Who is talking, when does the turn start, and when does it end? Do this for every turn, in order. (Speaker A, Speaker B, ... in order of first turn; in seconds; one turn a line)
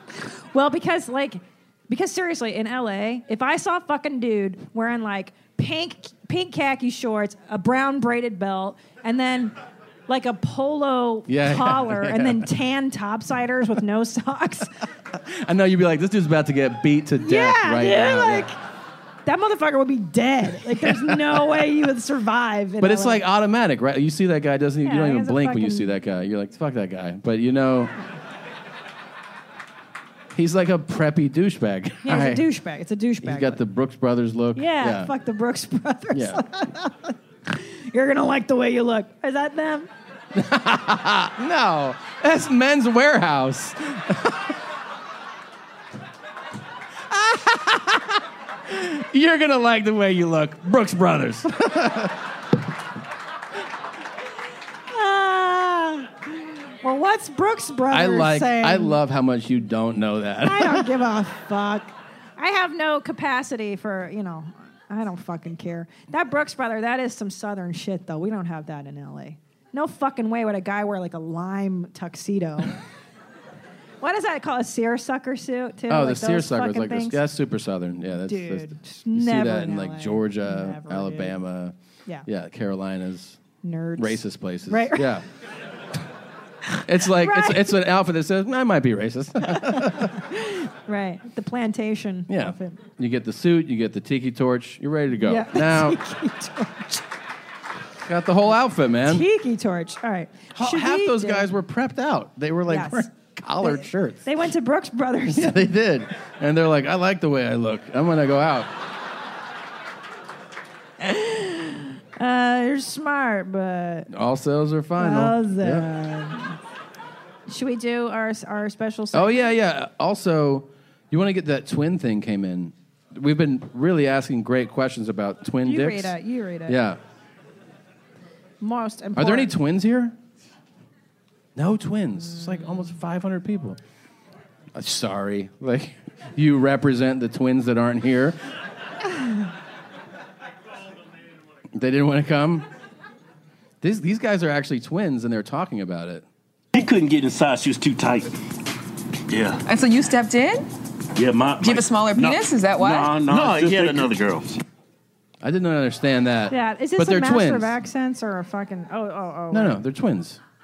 Speaker A: 0.5-9.5
Speaker A: 10.1-14.7
Speaker B: 11.3-12.5
Speaker B: 15.3-18.5
Speaker A: 17.2-18.6
Speaker A: 19.2-23.2
Speaker B: 20.7-21.6
Speaker B: 22.8-27.9
Speaker A: 24.8-25.9
Speaker B: 30.3-32.4
Speaker A: 32.0-33.6
Speaker B: 33.2-35.1
Speaker A: 34.5-39.9
Speaker B: 36.1-36.4
Speaker B: 40.3-44.4
Speaker B: 47.1-48.2
Speaker B: 48.7-52.1
Speaker A: 54.9-56.2
Speaker A: 56.8-59.0
Speaker B: 57.9-60.9
Speaker A: 60.4-72.8
Speaker A: 74.0-77.2
Speaker B: 75.9-81.7
Speaker A: 78.3-81.4
Speaker B: 82.2-83.4
Speaker A: 83.6-85.1
Speaker B: 84.0-85.2
Speaker A: 86.8-87.7
Speaker B: 86.8-90.2
Speaker A: 89.5-92.8
Speaker B: 92.3-96.0
Speaker A: 95.2-97.0
Speaker B: 98.0-99.2
Speaker A: 99.0-101.5
Speaker B: 100.6-104.2
Speaker A: 102.7-103.1
Speaker A: 103.6-105.7
Speaker B: 105.3-108.7
Speaker A: 111.0-114.1
Speaker B: 114.1-115.9
Speaker A: 115.0-116.6
Speaker A: 117.5-119.5
Speaker B: 119.1-126.2
Speaker A: 125.6-126.8
Speaker B: 126.7-127.0
Speaker A: 128.6-129.5
Speaker B: 129.2-130.1
Speaker B: 131.6-133.8
Speaker A: 132.3-132.8
Speaker B: 134.7-138.4
Speaker B: 141.7-142.7
Speaker B: 143.8-146.2
Speaker C: 146.7-148.3
Speaker C: 149.3-149.6
Speaker D: 149.7-150.6
Speaker C: 151.1-154.6
Speaker D: 151.6-153.4
Speaker B: 155.4-157.7
Speaker A: 156.5-159.8
Speaker B: 159.5-160.4